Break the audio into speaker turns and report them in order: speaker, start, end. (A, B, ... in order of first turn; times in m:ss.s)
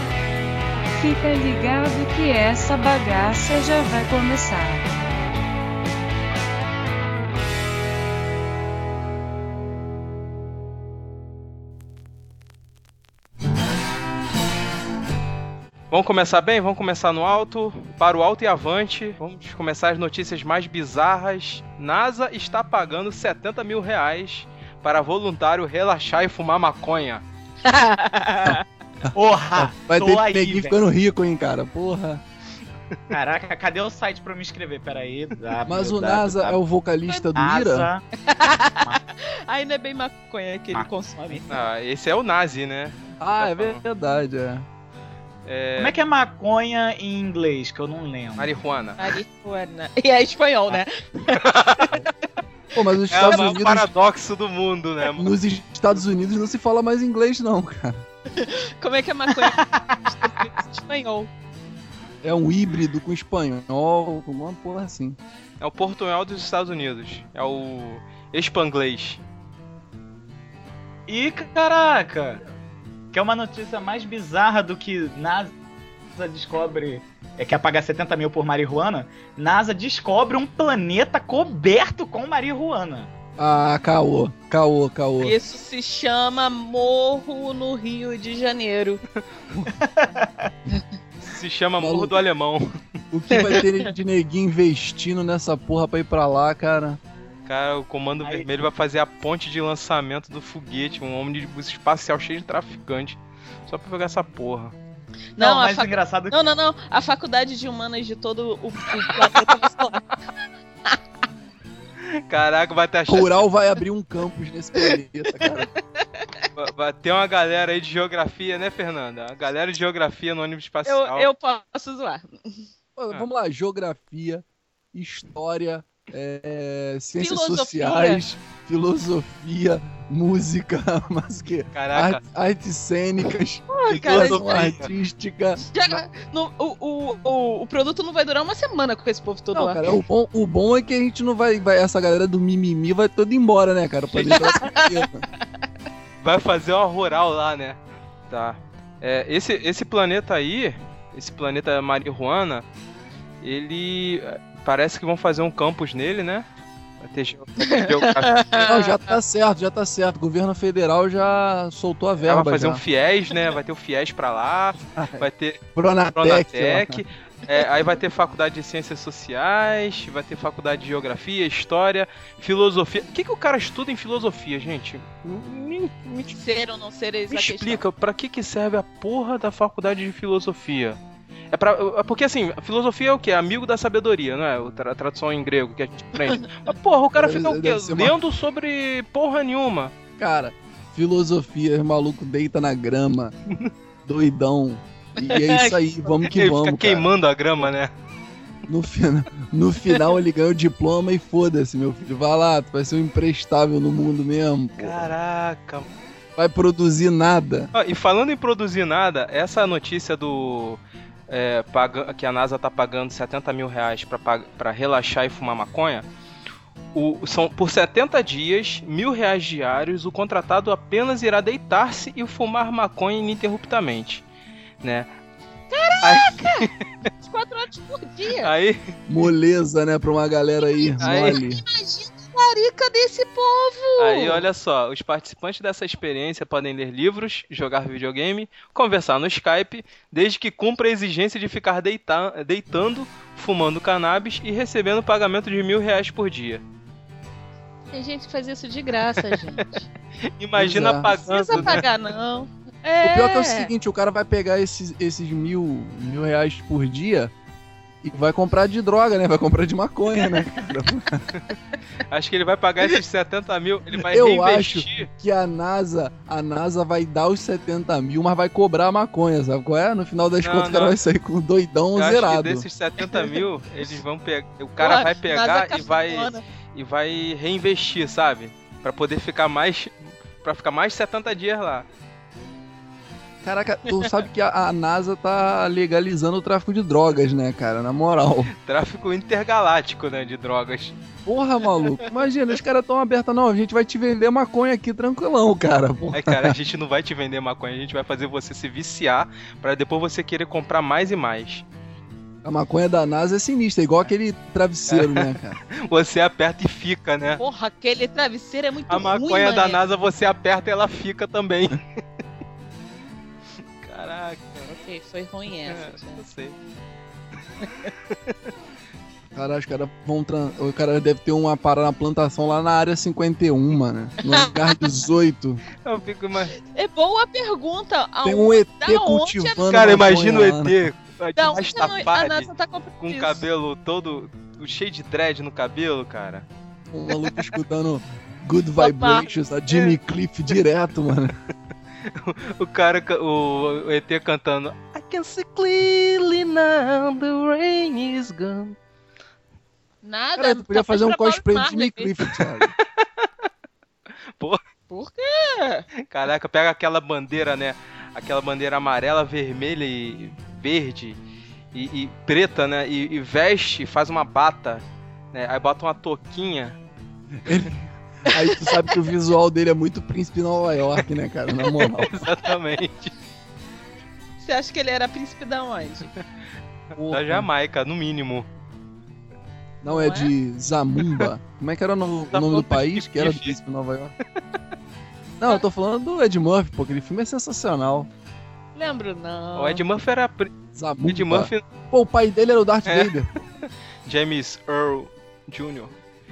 0:00.9-0:04.9 A
0:15.9-0:27.2 B
0:27.7-0:28.1 C
0:28.4-0:32.2 D
0:29.1-0:30.8 E
0:33.1-0:36.6 E
0:35.6-0:37.9 D
0:37.3-0:38.0 E
0:38.2-0:41.6 C
0:40.7-0:41.6 E
0:41.5-0:43.8 B
0:43.2-0:44.6 D
0:45.4-0:46.0 B
0:45.8-0:48.5 E
0:48.4-0:49.1 B
0:49.0-0:51.4 C
0:51.3-0:52.0 B
0:52.7-0:53.9 D
0:53.1-0:55.3 B
0:55.2-0:58.0 D
0:58.3-1:01.3 C
0:59.4-0:59.8 E
1:02.2-1:05.2 D
1:05.6-1:09.2 B
1:11.1-1:12.4 E
1:13.1-1:15.6 E
1:16.1-1:23.1 E
1:23.4-1:25.3 D
1:25.2-1:29.0 C
1:29.7-1:30.5 E
1:31.2-1:32.7 B
1:31.8-1:32.2 D
1:33.1-1:37.0 D
1:33.3-1:33.9 C
1:37.4-1:44.8 B
1:38.2-1:38.5 E
1:45.4-1:46.3 E
1:45.4-1:50.0 C
1:52.3-1:53.5 B
1:53.1-1:55.7 D
1:54.8-1:56.4 C
1:56.5-2:01.3 B
2:00.8-2:02.7 C
2:03.0-2:16.0 D
2:07.2-2:08.2 C
2:11.7-2:12.2 B
2:13.7-2:14.7 C
2:14.1-2:14.9 B
2:15.6-2:19.8 C
2:19.5-2:25.2 D
2:24.2-2:25.0 C
2:26.2-2:32.6 B
2:33.4-2:36.4 B
2:37.0-2:38.4 B
2:37.7-2:39.2 C
2:38.6-2:42.8 D
2:42.2-2:45.6 B
2:44.9-2:47.0 D
2:46.1-2:56.4 B
2:56.3-2:57.8 C
2:57.3-3:01.0 B
3:01.5-3:09.9 B
3:07.1-3:08.2 D
3:10.2-3:13.3 D
3:14.0-3:17.6 D
3:15.2-3:15.7 C
3:16.2-3:17.9 B
3:18.7-3:25.1 D
3:24.8-3:25.9 B
3:26.4-3:27.7 D
3:27.7-3:36.1 B
3:36.9-3:44.2 B
3:44.8-3:45.1 B
3:45.7-3:46.7 C
3:46.0-3:47.1 B
3:47.2-3:48.5 C
3:48.4-3:48.9 B
3:49.1-3:51.6 D
3:50.7-3:54.4 C
3:51.0-3:51.4 B
3:54.0-4:06.6 B
4:07.9-4:09.9 C
4:10.4-4:11.8 B
4:10.6-4:11.8 D
4:11.0-4:13.7 C
4:13.0-4:17.3 D
4:18.0-4:21.2 D
4:22.1-4:25.1 B
4:24.0-4:32.6 D
4:30.4-4:31.0 B
4:31.9-4:41.9 B
4:33.0-4:33.4 C
4:34.8-4:36.4 C
4:43.4-4:48.5 D
4:48.6-4:50.9 B
4:51.2-4:56.5 D
4:56.1-5:01.6 B
5:02.4-5:05.6 D
5:04.9-5:07.4 B
5:07.4-5:09.8 C
5:08.9-5:11.8 B
5:13.8-5:14.7 B
5:14.6-5:16.2 C
5:15.6-5:16.6 B
5:19.3-5:25.6 D
5:24.3-5:25.0 C
5:25.8-5:26.6 B
5:26.6-5:29.8 C
5:28.2-5:30.9 D
5:29.7-5:32.5 B
5:31.4-5:33.4 C
5:31.6-5:31.9 D
5:33.0-5:36.5 B
5:36.9-5:41.3 D
5:38.8-5:39.9 C
5:42.1-5:48.8 B
5:50.0-5:52.1 C
5:50.4-5:52.7 D
5:53.0-5:53.3 B
5:54.9-5:55.9 C
5:56.0-6:01.2 B
6:01.7-6:06.8 B
6:07.4-6:12.1 D
6:12.0-6:13.1 B
6:14.4-6:16.1 C
6:16.9-6:17.5 D
6:17.1-6:18.5 B
6:19.8-6:24.1 D
6:19.8-6:20.3 C
6:22.3-6:23.6 B
6:25.4-6:28.1 D
6:28.7-6:29.8 C
6:29.6-6:30.5 B
6:30.7-6:33.3 D
6:31.0-6:31.6 B
6:32.9-6:33.1 B
6:34.0-6:35.9 B